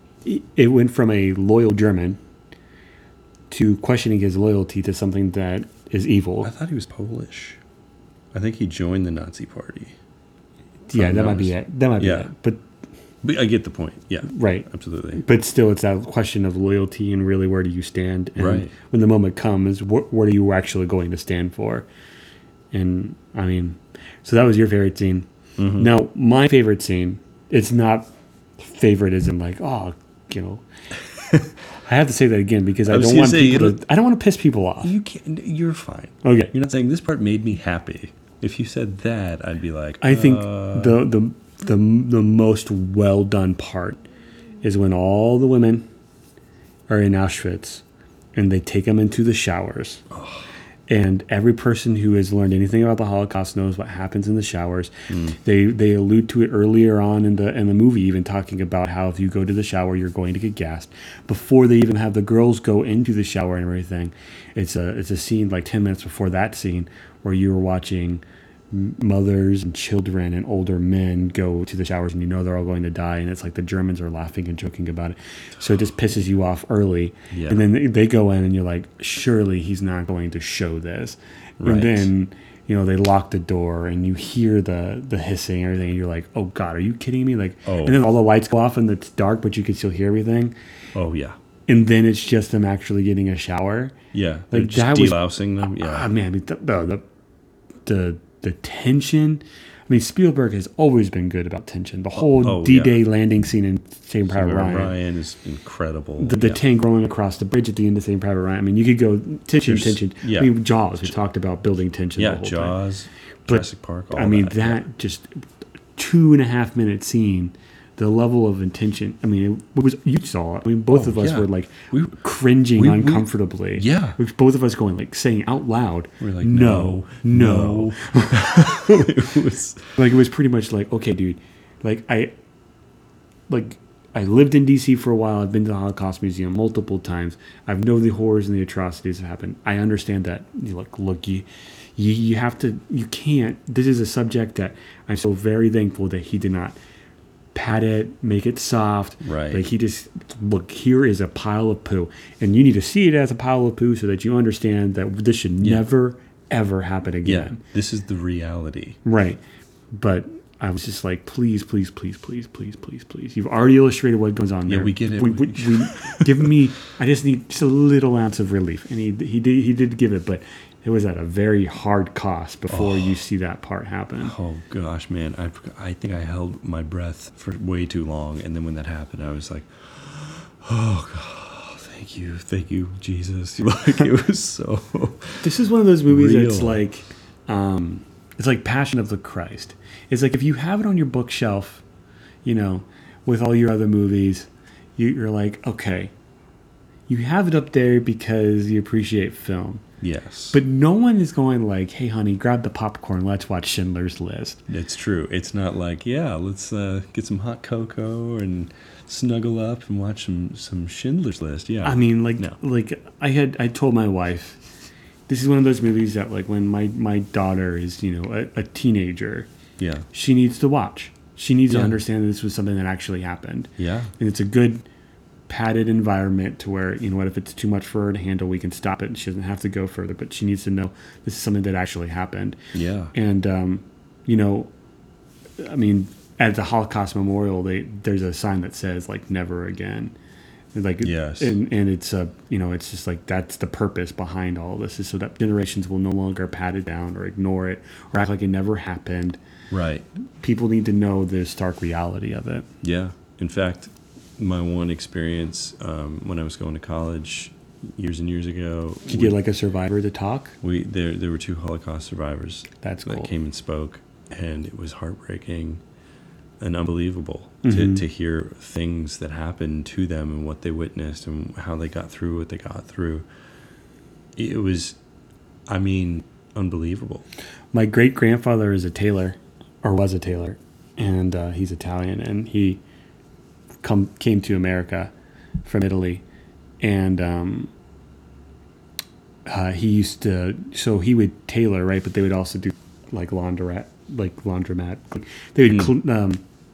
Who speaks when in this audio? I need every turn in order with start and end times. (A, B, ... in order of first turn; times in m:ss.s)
0:00.2-0:02.2 A
0:03.5-0:06.5 A
0:06.4-0:07.6 B
0:08.3-0:10.0 B
0:10.9-0:12.6 A
0:10.9-0:12.3 B
0:13.2-0:15.2 B
0:14.2-0:21.9 A
0:18.4-0:18.7 B
0:22.7-0:30.6 A
0:25.6-0:25.9 B
0:31.7-0:34.9 A
0:32.9-0:33.8 B
0:34.8-0:41.0 B
0:36.2-0:36.5 A
0:40.0-0:44.0 A
0:44.6-0:45.9 A
0:46.9-0:47.8 A
0:48.4-0:50.0 A
0:50.1-0:50.5 B
0:50.9-1:30.5 A
0:55.1-0:55.4 B
1:17.3-1:17.6 B
1:21.6-1:22.1 B
1:27.6-1:28.0 B
1:30.9-1:31.4 B
1:31.7-1:34.0 A
1:34.1-1:36.1 B
1:34.5-1:37.0 A
1:37.9-1:44.9 A
1:42.2-1:43.0 B
1:44.3-1:46.6 B
1:46.2-1:52.8 A
1:49.6-1:50.5 B
1:52.2-1:54.8 B
1:53.5-1:55.4 A
1:56.0-2:09.2 A
2:00.9-2:02.2 B
2:02.7-2:04.2 B
2:06.2-2:10.0 B
2:10.0-2:12.3 A
2:13.5-2:26.8 A
2:27.5-2:37.6 A
2:29.2-2:29.6 B
2:35.6-2:35.9 B
2:37.2-2:39.0 B
2:39.0-2:39.4 A
2:39.9-2:54.4 A
2:44.7-2:46.5 B
2:52.7-2:53.2 B
2:54.2-3:05.5 B
3:05.4-3:11.8 A
3:06.1-3:06.8 B
3:12.4-3:16.1 A
3:17.1-3:19.8 A
3:20.0-3:20.6 B
3:20.5-3:24.6 A
3:24.7-3:32.6 B
3:31.8-3:34.6 A
3:35.3-3:39.5 A
3:39.8-3:40.1 B
3:40.1-3:44.8 A
3:41.7-3:42.0 B
3:43.8-3:44.1 B
3:45.5-3:52.6 A
3:52.7-3:53.1 B
3:53.1-3:54.7 A
3:55.6-4:00.1 A
4:00.7-4:09.4 A
4:01.0-4:01.6 B
4:09.7-4:10.1 B
4:10.4-4:12.7 A
4:12.8-4:19.4 B
4:19.1-4:20.6 A
4:20.6-4:25.8 B
4:22.8-4:23.3 A
4:26.6-4:33.2 B
4:27.6-4:28.0 A
4:34.4-4:35.0 B
4:35.7-4:37.3 B
4:37.7-4:42.8 A
4:43.8-4:45.1 A
4:45.6-4:46.2 A
4:46.8-4:47.7 A
4:49.4-4:56.4 A
4:55.7-4:55.9 B